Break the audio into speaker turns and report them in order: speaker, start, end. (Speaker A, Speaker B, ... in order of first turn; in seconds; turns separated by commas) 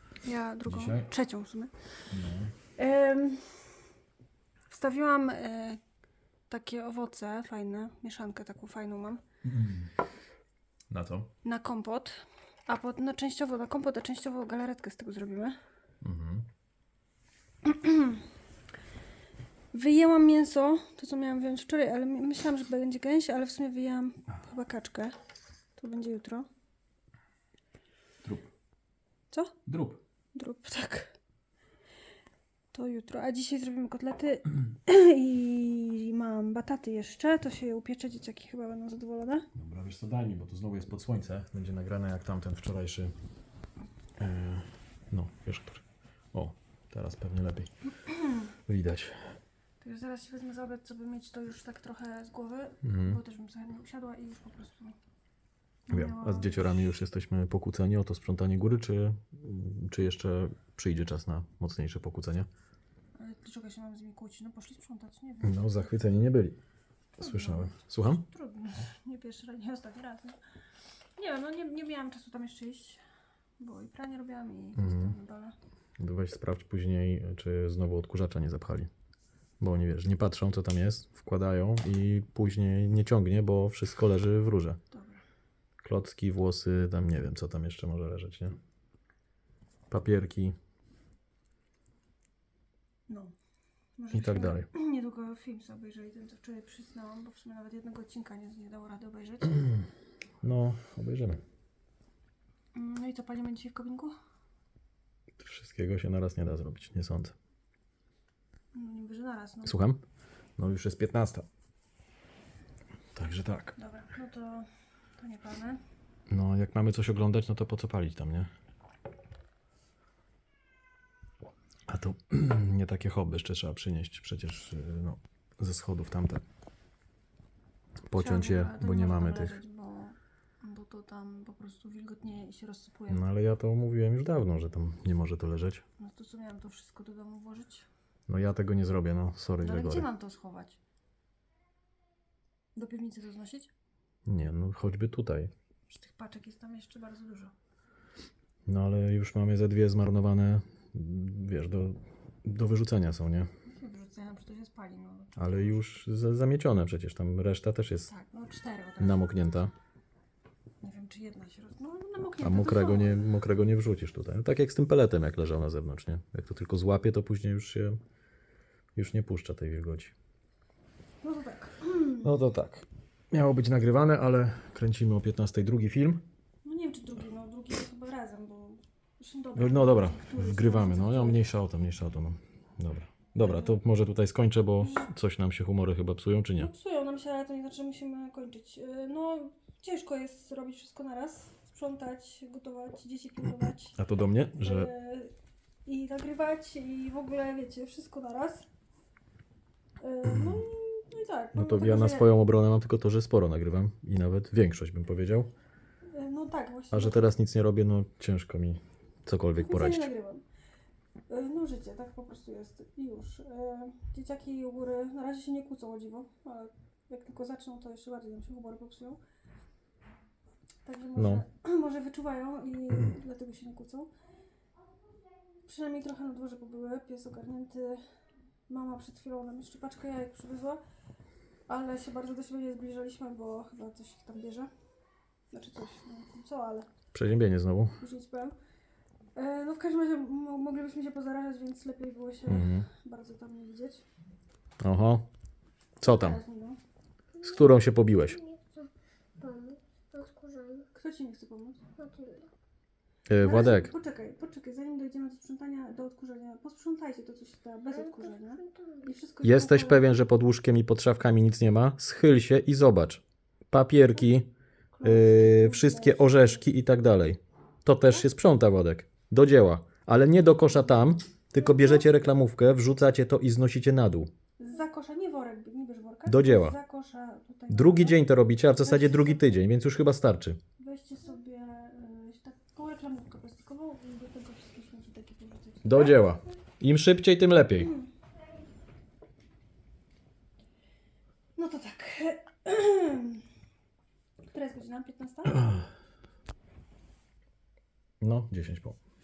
Speaker A: 0.2-1.9, Speaker B: 0.6-1.1, Speaker B: 2.1-2.5, Speaker A: 2.8-3.9, Speaker A: 4.7-5.8, Speaker A: 6.5-9.2, Speaker B: 9.4-9.9, Speaker B: 10.9-11.3, Speaker A: 11.4-15.6, Speaker B: 16.0-16.5, Speaker A: 17.6-18.2, Speaker A: 19.7-25.1, Speaker A: 25.8-26.5, Speaker B: 28.2-28.5, Speaker A: 29.3-29.6, Speaker B: 29.6-30.0, Speaker A: 30.3-31.1, Speaker A: 32.7-39.5, Speaker B: 39.5-43.1, Speaker B: 44.2-47.7, Speaker B: 48.5-49.4, Speaker A: 49.8-55.0, Speaker B: 52.8-53.2, Speaker A: 55.9-56.9, Speaker B: 55.9-62.5, Speaker A: 63.1-65.7, Speaker B: 65.4-66.6, Speaker A: 67.2-70.4, Speaker B: 67.2-68.2, Speaker A: 71.2-73.0, Speaker A: 73.6-75.5, Speaker B: 74.8-75.2, Speaker B: 76.0-78.9, Speaker B: 79.6-84.8, Speaker A: 84.9-85.2, Speaker B: 85.8-88.6, Speaker B: 89.9-90.5, Speaker A: 93.1-93.3, Speaker A: 94.0-99.8, Speaker B: 94.1-94.7, Speaker B: 100.4-101.4, Speaker A: 102.7-104.1, Speaker B: 105.4-107.3, Speaker A: 108.7-109.8, Speaker B: 109.6-110.0, Speaker B: 110.6-111.5, Speaker B: 113.1-113.8, Speaker A: 113.8-115.8, Speaker B: 116.3-118.5, Speaker B: 121.9-126.4, Speaker B: 128.1-129.6, Speaker A: 128.1-133.2, Speaker B: 133.1-135.8, Speaker A: 136.0-137.9, Speaker B: 138.3-140.1, Speaker A: 139.6-140.8, Speaker A: 142.7-143.7, Speaker B: 144.2-145.5, Speaker A: 145.9-147.5, Speaker B: 148.7-153.5, Speaker A: 153.6-155.8, Speaker B: 155.3-158.1, Speaker A: 158.1-159.3, Speaker B: 159.0-159.7, Speaker A: 160.8-163.3, Speaker B: 162.4-168.0, Speaker B: 168.9-170.1, Speaker A: 171.2-172.3, Speaker B: 172.2-176.2, Speaker A: 176.6-181.4, Speaker B: 179.6-186.7, Speaker A: 183.4-183.7, Speaker A: 184.8-185.1, Speaker A: 186.6-194.0, Speaker B: 193.9-194.9, Speaker A: 194.6-195.3, Speaker A: 195.8-198.7, Speaker A: 200.0-202.3, Speaker B: 201.5-205.5, Speaker A: 206.1-207.3, Speaker B: 206.9-210.1, Speaker A: 209.6-210.4, Speaker A: 211.3-219.2, Speaker A: 220.8-224.1, Speaker B: 221.2-221.4, Speaker A: 225.6-228.1, Speaker A: 228.7-230.8, Speaker A: 231.7-234.7, Speaker A: 235.5-236.9, Speaker B: 237.1-238.0, Speaker A: 238.0-238.5, Speaker A: 239.3-244.0, Speaker B: 242.4-242.9, Speaker B: 244.8-245.2, Speaker B: 246.0-246.4, Speaker A: 246.0-246.8, Speaker B: 247.4-248.4, Speaker C: 248.3-250.9, Speaker A: 250.9-251.9, Speaker C: 251.9-252.5, Speaker B: 253.3-253.9, Speaker A: 253.4-260.1, Speaker C: 258.1-259.0, Speaker B: 259.4-264.5, Speaker A: 264.9-266.6, Speaker B: 265.0-274.3, Speaker A: 271.6-272.0, Speaker A: 274.6-279.5, Speaker B: 276.3-276.8, Speaker B: 277.7-280.6, Speaker A: 280.8-286.1, Speaker B: 285.8-287.9, Speaker A: 287.8-288.1, Speaker A: 291.6-293.4, Speaker A: 294.5-295.8, Speaker B: 298.2-299.0